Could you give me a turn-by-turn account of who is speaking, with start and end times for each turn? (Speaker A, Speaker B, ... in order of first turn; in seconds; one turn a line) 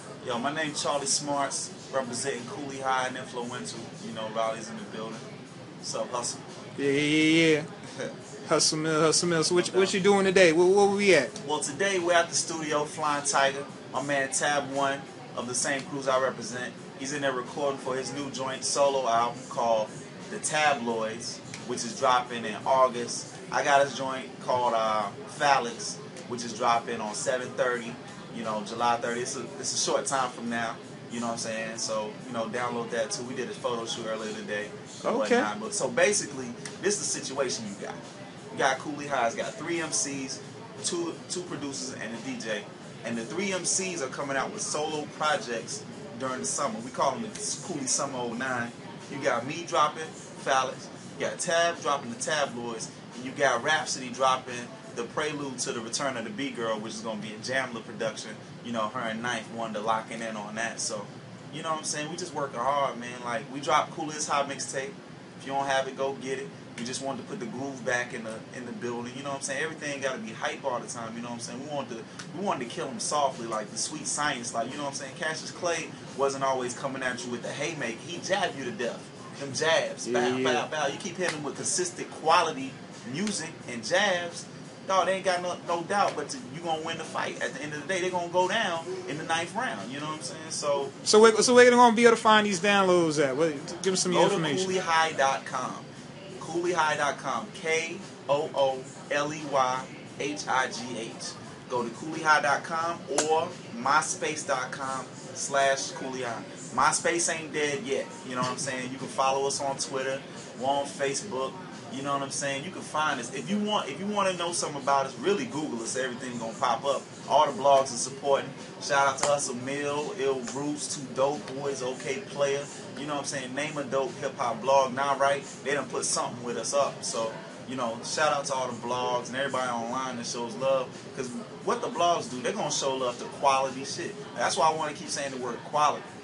Speaker A: 0.2-5.2
Speaker A: 5.8-6.4
Speaker B: 6.8-7.7
Speaker B: 8.5-11.3
Speaker A: 9.5-9.9
Speaker A: 11.4-38.0
Speaker B: 35.0-35.5
Speaker A: 38.5-90.9
Speaker B: 80.0-80.7
Speaker B: 91.0-94.7
Speaker A: 94.0-95.9
Speaker A: 96.4-136.1